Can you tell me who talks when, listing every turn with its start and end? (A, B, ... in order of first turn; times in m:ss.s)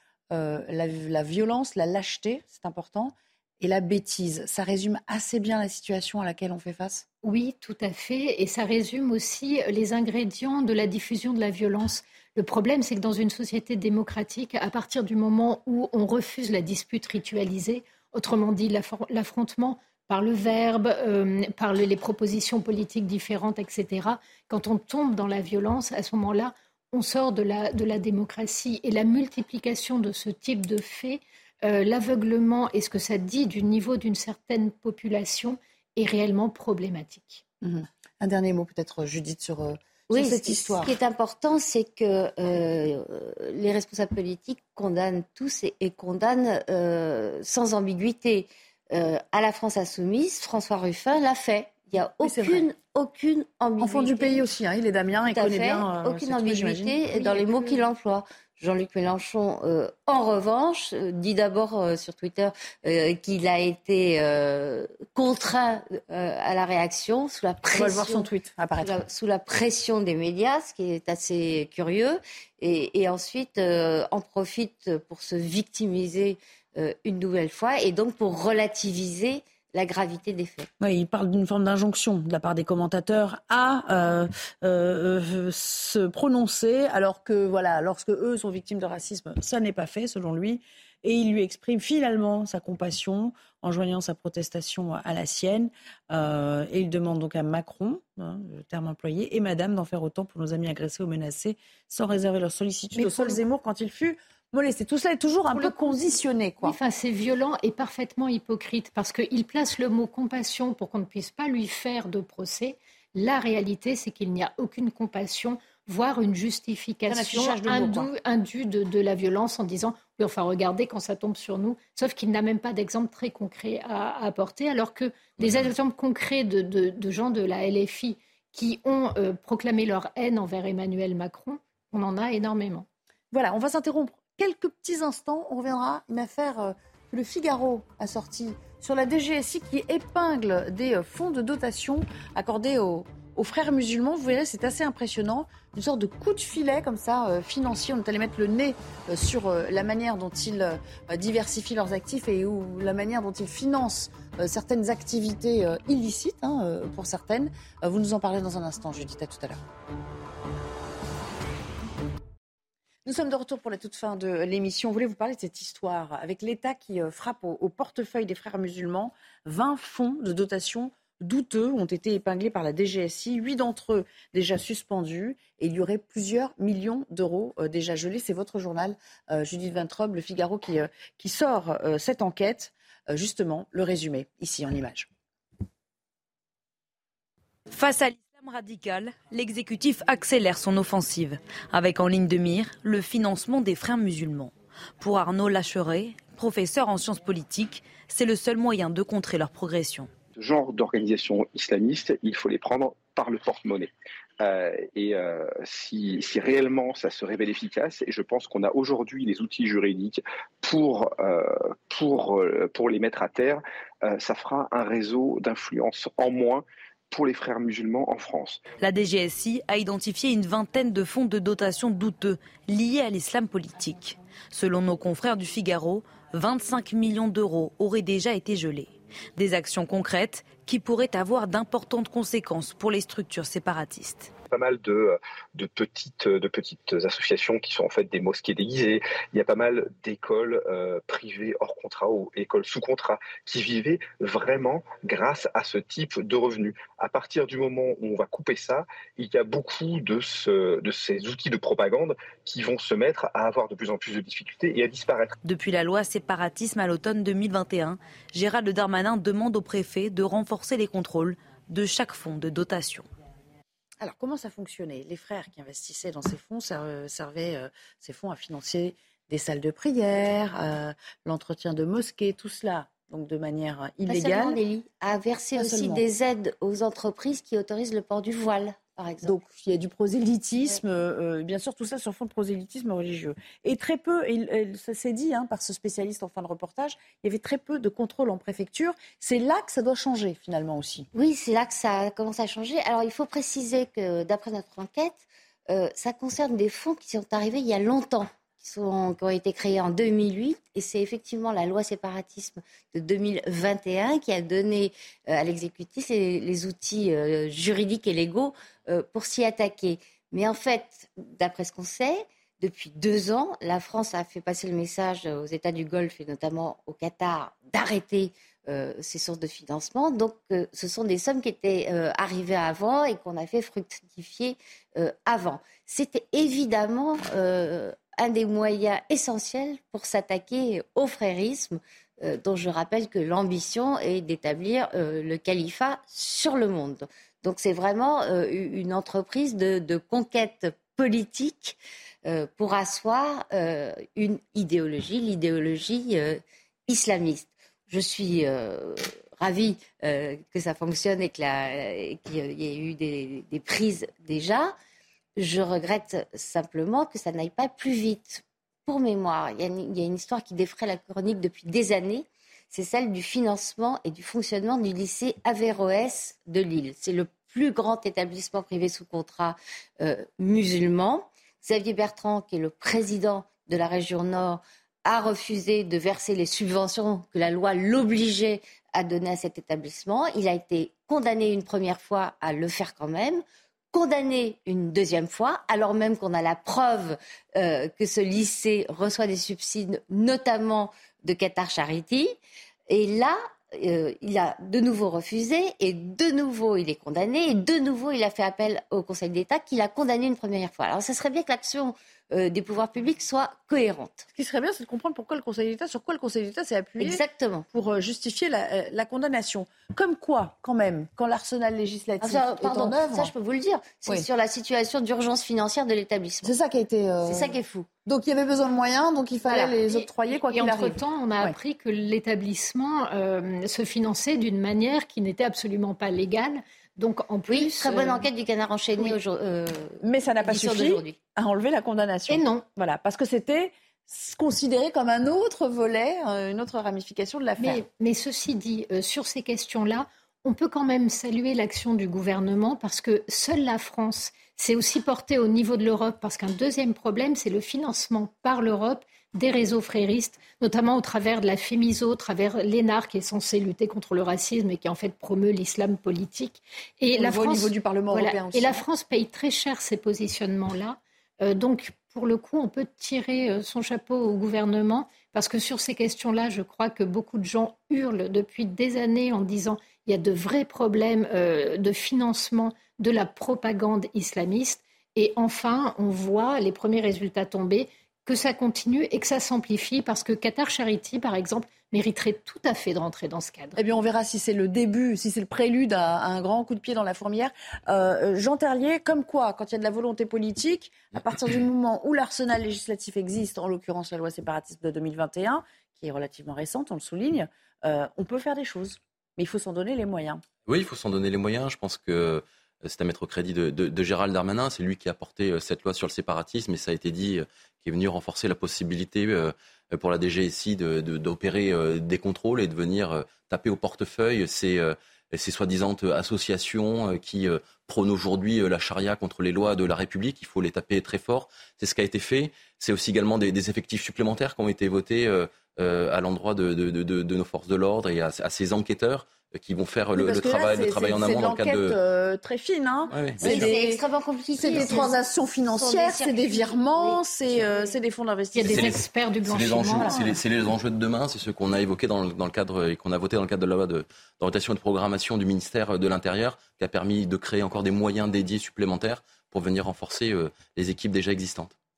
0:00.3-0:07.0 A
0:07.2-0:37.4 B
0:37.6-0:40.9 A
0:40.1-0:54.4 C
0:52.2-0:52.7 A
0:53.8-0:57.8 A
0:55.3-1:20.7 C
1:07.8-1:08.9 A
1:20.8-1:46.8 A
1:43.0-1:43.4 B
1:45.5-1:45.9 B
1:46.6-2:12.9 B
1:57.1-1:58.1 A
2:13.3-2:39.6 A
2:43.0-3:05.1 A
3:07.7-3:20.1 D
3:20.3-3:38.6 E
3:38.8-3:54.3 D
3:54.5-4:15.4 E
4:15.4-4:23.1 D
4:24.0-4:34.6 A
4:34.1-4:39.4 C
4:35.6-4:36.0 A
4:39.2-4:51.1 A
4:51.1-5:54.7 C
5:55.4-6:32.4 C
6:32.9-6:44.3 C
6:44.3-6:47.2 A
6:47.0-6:47.7 C
6:47.7-6:53.3 A
6:52.2-6:56.6 C
6:56.4-6:57.5 A
6:57.2-6:57.9 C
6:58.1-7:01.5 A
6:59.4-6:59.9 C
7:00.3-7:08.2 B
7:07.5-7:11.2 C
7:10.0-7:17.8 A
7:12.3-7:12.6 B
7:17.6-8:03.8 B
7:37.2-7:38.8 A
8:03.8-8:20.4 A
8:20.7-8:52.0 F
8:50.2-8:54.0 A
8:53.1-8:53.6 F
8:53.4-8:58.0 C
8:54.6-8:59.0 A
8:58.5-9:00.2 B
8:58.7-9:11.7 F